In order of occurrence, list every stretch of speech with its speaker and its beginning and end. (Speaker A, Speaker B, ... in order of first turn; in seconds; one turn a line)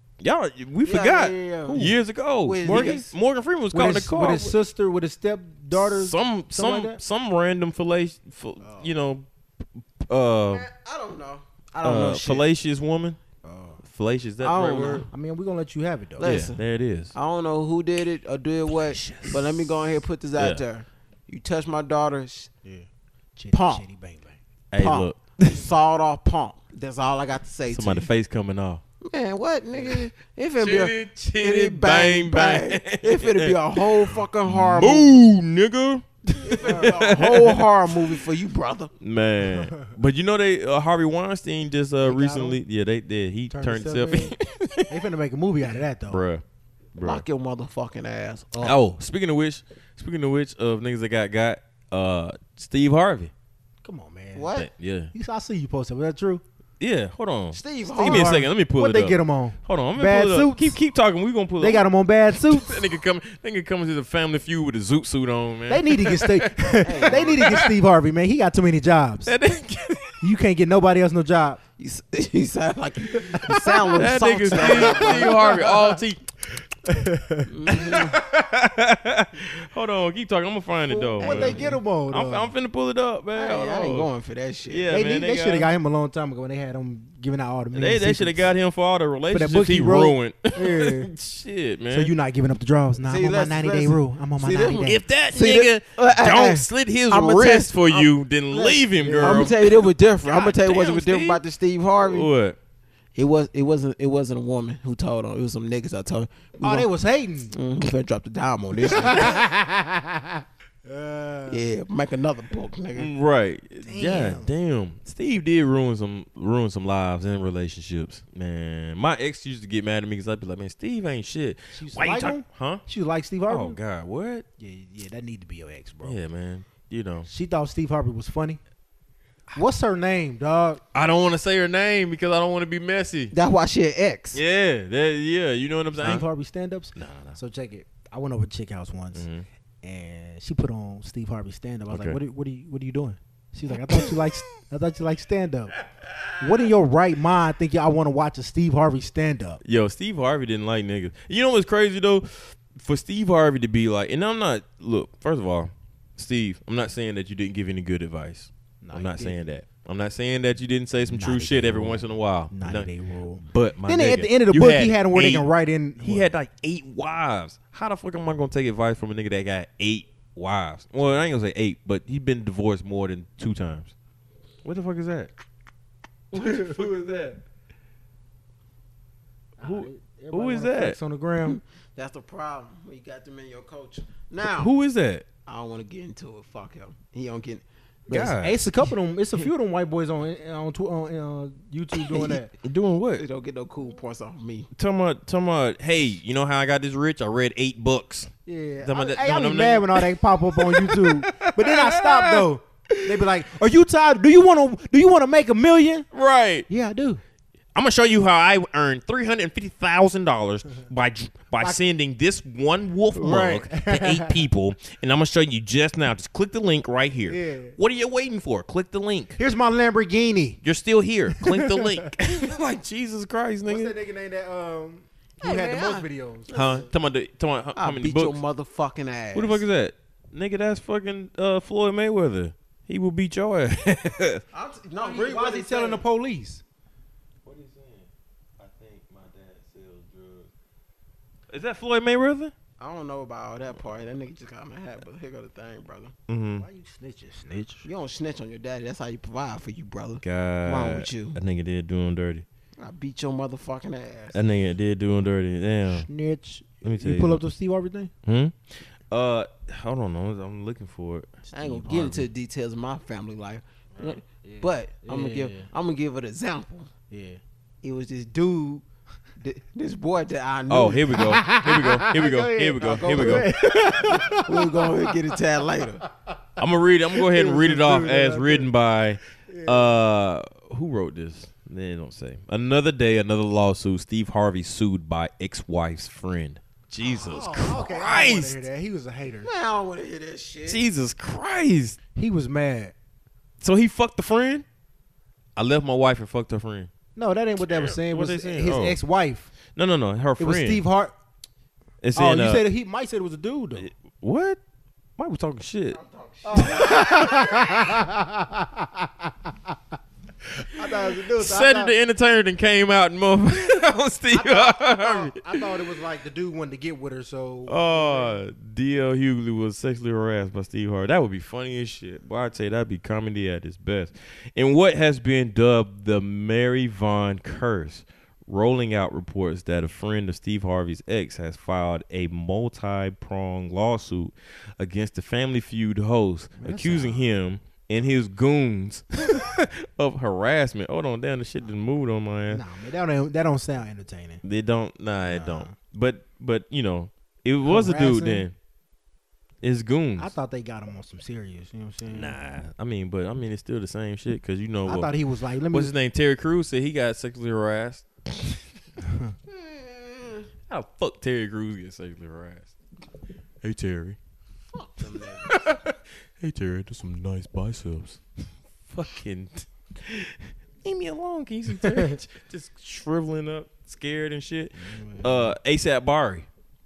Speaker A: 0.2-4.5
Speaker B: 0.8-3.1
Speaker C: 1.7-2.0
Speaker C: 2.6-3.0
Speaker C: 3.7-7.0
Speaker A: 5.7-9.3
Speaker A: 10.0-10.7
Speaker B: 10.5-12.5
Speaker A: 11.8-13.2
Speaker C: 13.4-13.8
Speaker A: 13.8-15.1
Speaker B: 14.4-15.1
Speaker C: 15.1-16.4
Speaker B: 16.2-16.6
Speaker A: 16.2-17.1
Speaker B: 17.1-22.5
Speaker A: 18.8-19.8
Speaker A: 20.4-20.6
Speaker C: 22.6-24.4
Speaker B: 23.5-23.8
Speaker A: 24.7-25.6
Speaker B: 24.8-28.1
Speaker A: 27.7-28.8
Speaker B: 29.0-35.2
Speaker A: 30.6-37.7
Speaker B: 36.4-38.9
Speaker C: 36.6-37.2
Speaker A: 39.0-45.0
Speaker C: 39.5-39.9
Speaker C: 42.0-42.6
Speaker C: 43.5-44.4
Speaker C: 44.9-46.2
Speaker A: 46.1-46.4
Speaker A: 46.9-47.2
Speaker B: 47.0-48.8
Speaker A: 48.6-53.3
Speaker C: 53.8-54.5
Speaker B: 54.3-54.7
Speaker A: 54.5-55.1
Speaker C: 55.1-56.4
Speaker A: 56.8-67.7
Speaker B: 57.5-58.4
Speaker C: 57.8-60.8
Speaker C: 61.6-62.8
Speaker C: 65.7-69.3
Speaker B: 66.8-67.6
Speaker A: 69.2-70.2
Speaker C: 70.2-71.6
Speaker B: 71.8-75.7
Speaker C: 73.3-73.9
Speaker A: 73.9-76.2
Speaker C: 74.5-76.0
Speaker C: 76.8-77.5
Speaker B: 77.5-78.2
Speaker A: 77.7-84.1
Speaker C: 80.9-82.5
Speaker B: 81.2-81.8
Speaker B: 83.3-85.0
Speaker A: 84.7-85.7
Speaker C: 84.9-88.5
Speaker A: 87.7-92.1
Speaker C: 89.3-91.1
Speaker C: 91.9-95.0
Speaker B: 93.0-102.3
Speaker A: 94.8-101.4
Speaker C: 98.7-99.5
Speaker A: 102.0-102.6
Speaker B: 103.1-106.9
Speaker C: 106.6-107.5
Speaker B: 107.5-109.4
Speaker C: 108.8-111.7
Speaker B: 111.5-113.1
Speaker A: 113.0-122.8
Speaker C: 113.8-114.5
Speaker C: 121.7-123.8
Speaker A: 123.5-124.4
Speaker C: 124.6-126.2
Speaker A: 126.0-127.3
Speaker C: 127.3-128.6
Speaker C: 129.5-130.8
Speaker A: 130.9-133.3
Speaker B: 133.3-134.4
Speaker A: 134.3-136.2
Speaker C: 136.0-139.3
Speaker A: 136.9-137.4
Speaker A: 139.1-139.4
Speaker C: 139.8-145.7
Speaker A: 141.9-142.2
Speaker C: 146.4-149.6
Speaker A: 149.6-162.9
Speaker C: 158.8-159.4
Speaker C: 161.1-166.3
Speaker A: 163.4-165.5
Speaker A: 166.0-173.9
Speaker A: 174.6-175.3
Speaker A: 176.3-177.4
Speaker C: 179.6-181.6
Speaker A: 179.6-181.0
Speaker B: 181.4-184.7
Speaker A: 184.4-185.2
Speaker B: 185.4-187.6
Speaker A: 188.1-188.6
Speaker C: 188.1-192.5
Speaker A: 192.6-193.2
Speaker B: 193.2-194.7
Speaker A: 194.7-198.3
Speaker C: 198.4-206.1
Speaker A: 198.8-203.2
Speaker A: 206.1-206.7
Speaker C: 206.7-207.2
Speaker A: 207.7-219.4
Speaker C: 213.1-214.5
Speaker C: 217.3-217.8
Speaker C: 219.3-220.6
Speaker A: 220.6-223.9
Speaker C: 221.4-222.1
Speaker C: 223.7-226.5
Speaker B: 225.4-226.9
Speaker A: 226.5-228.4
Speaker B: 227.8-229.6
Speaker A: 229.3-234.4
Speaker B: 234.5-236.0
Speaker C: 235.0-236.6
Speaker A: 237.4-240.5
Speaker A: 241.5-242.5
Speaker B: 242.8-246.1
Speaker A: 246.3-246.7
Speaker C: 246.6-247.8
Speaker B: 247.8-251.4
Speaker A: 250.2-252.4
Speaker B: 252.8-254.4
Speaker A: 254.3-256.1
Speaker C: 255.9-258.1
Speaker A: 256.8-257.4
Speaker A: 258.2-262.2
Speaker B: 261.5-266.9
Speaker C: 264.2-265.7
Speaker C: 267.1-267.4
Speaker B: 267.8-268.8
Speaker B: 269.4-271.2
Speaker A: 270.7-273.5
Speaker C: 271.1-275.4
Speaker B: 272.9-276.1
Speaker A: 276.6-288.6
Speaker C: 277.1-278.7
Speaker C: 279.4-279.9
Speaker C: 287.0-289.5
Speaker B: 289.4-290.8
Speaker A: 290.6-292.0
Speaker C: 292.1-292.9
Speaker A: 293.6-294.6
Speaker A: 295.6-296.9
Speaker C: 297.1-299.5
Speaker A: 297.7-299.0
Speaker A: 299.8-300.8
Speaker C: 300.4-301.1
Speaker A: 302.0-302.6
Speaker C: 302.1-303.9
Speaker A: 303.8-304.6
Speaker A: 305.2-306.0
Speaker B: 305.9-307.7
Speaker C: 306.4-309.7
Speaker A: 306.6-307.1
Speaker C: 310.7-311.9
Speaker A: 311.3-315.4
Speaker C: 314.3-318.4
Speaker A: 317.7-342.6
Speaker C: 336.6-337.3
Speaker C: 342.5-344.4
Speaker A: 344.4-348.5
Speaker C: 345.2-345.8
Speaker C: 347.6-348.5
Speaker A: 349.6-350.3
Speaker C: 350.2-352.4
Speaker A: 352.1-355.1
Speaker C: 354.8-355.9
Speaker A: 355.7-358.6
Speaker C: 359.0-359.3
Speaker B: 359.5-360.5
Speaker A: 360.7-362.7
Speaker A: 363.6-364.2
Speaker B: 364.7-365.6
Speaker A: 365.4-368.2
Speaker A: 368.9-376.5
Speaker C: 374.8-375.5